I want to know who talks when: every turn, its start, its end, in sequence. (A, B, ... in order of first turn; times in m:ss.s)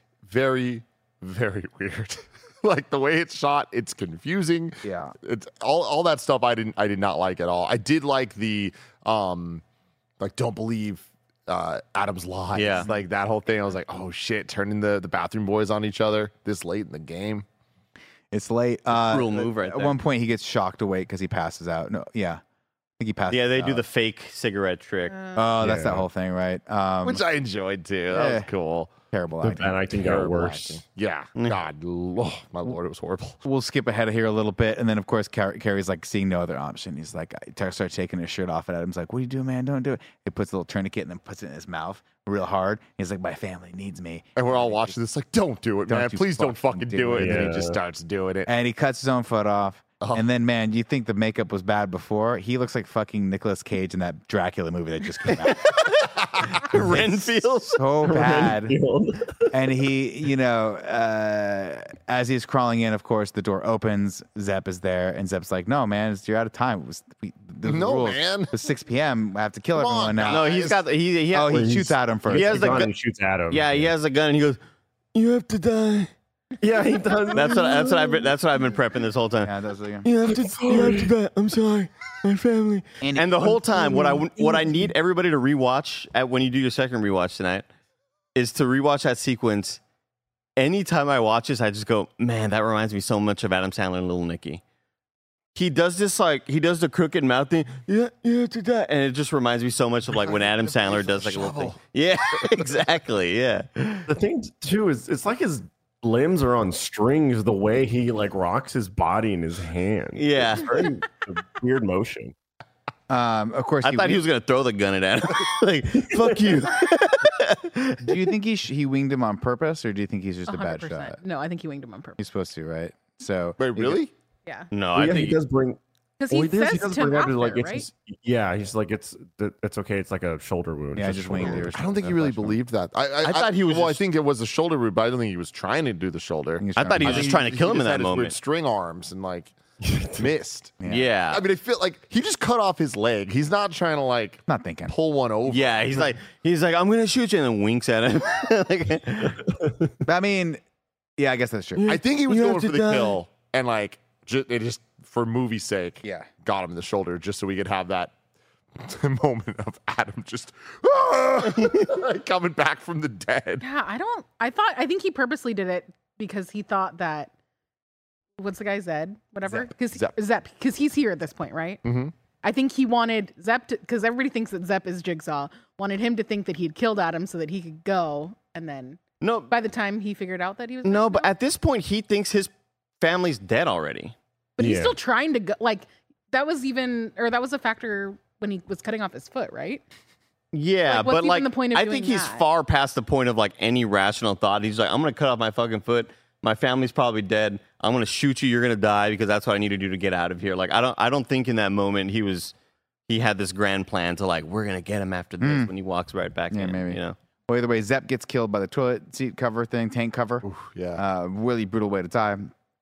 0:00.2-0:09.6 A
0:04.8-0:05.1 B
0:10.2-0:17.4 A
0:12.5-0:12.9 C
0:18.3-0:22.4 B
0:18.9-0:19.9 C
0:23.0-0:23.8 B
0:23.3-0:25.2 C
0:25.1-0:25.4 D
0:25.4-0:27.2 B
0:25.6-0:26.0 E
0:27.0-0:28.9 A
0:28.1-0:28.5 B
0:29.1-0:29.8 B
0:29.4-0:30.8 E
0:29.9-0:33.4 A
0:33.4-0:45.0 B
0:44.4-0:48.5 A
0:45.9-0:47.6 B
0:47.2-0:47.8 E
0:48.4-0:55.8 B
0:55.3-0:57.8 C
0:56.7-0:58.8 B
0:58.0-0:59.6 E
0:59.5-1:10.5 B
1:07.6-1:08.5 A
1:09.7-1:10.8 A
1:10.3-1:12.9 C
1:11.3-1:12.8 B
1:11.5-1:13.9 E
1:13.5-1:14.6 C
1:15.1-1:16.1 C
1:16.6-1:18.3 E
1:17.3-1:19.5 C
1:19.4-1:20.1 B
1:20.0-1:27.6 C
1:20.3-1:21.1 E
1:23.0-1:23.6 B
1:23.7-1:24.6 E
1:28.4-1:29.8 C
1:30.6-1:34.6 C
1:35.5-1:44.0 C
1:40.1-1:41.8 A
1:42.4-1:42.7 A
1:44.1-1:52.3 E
1:50.2-1:50.7 C
1:53.1-1:54.2 B
1:53.8-1:58.2 C
1:58.0-2:01.2 B
2:00.5-2:02.2 D
2:02.2-2:04.0 B
2:03.6-2:04.1 A
2:04.7-2:05.4 C
2:04.9-2:05.8 E
2:06.2-2:07.9 D
2:06.3-2:11.7 E
2:10.9-2:12.6 B
2:11.4-2:19.6 A
2:13.2-2:14.0 C
2:16.6-2:17.4 B
2:16.8-2:18.4 C
2:19.8-2:20.3 E
2:20.2-2:20.8 A
2:20.8-2:21.1 B
2:20.9-2:21.4 C
2:21.3-2:26.1 A
2:24.5-2:24.9 B
2:25.5-2:29.4 C
2:29.3-2:29.9 E
2:30.0-2:30.6 B
2:31.2-2:31.9 B
2:31.8-2:33.2 C
2:31.9-2:38.1 A
2:36.0-2:36.3 B
2:38.8-2:43.6 A
2:43.6-2:47.3 D
2:48.4-2:51.8 D
2:49.4-2:50.1 A
2:51.8-2:52.1 A
2:52.4-3:01.3 D
2:59.2-2:59.5 C
3:00.8-3:04.1 C
3:04.6-3:09.8 D
3:04.6-3:05.0 E
3:10.5-3:22.5 C
3:10.8-3:12.4 D
3:23.1-3:27.2 C
3:25.4-3:25.7 B
3:26.5-3:32.5 B
3:30.4-3:31.0 A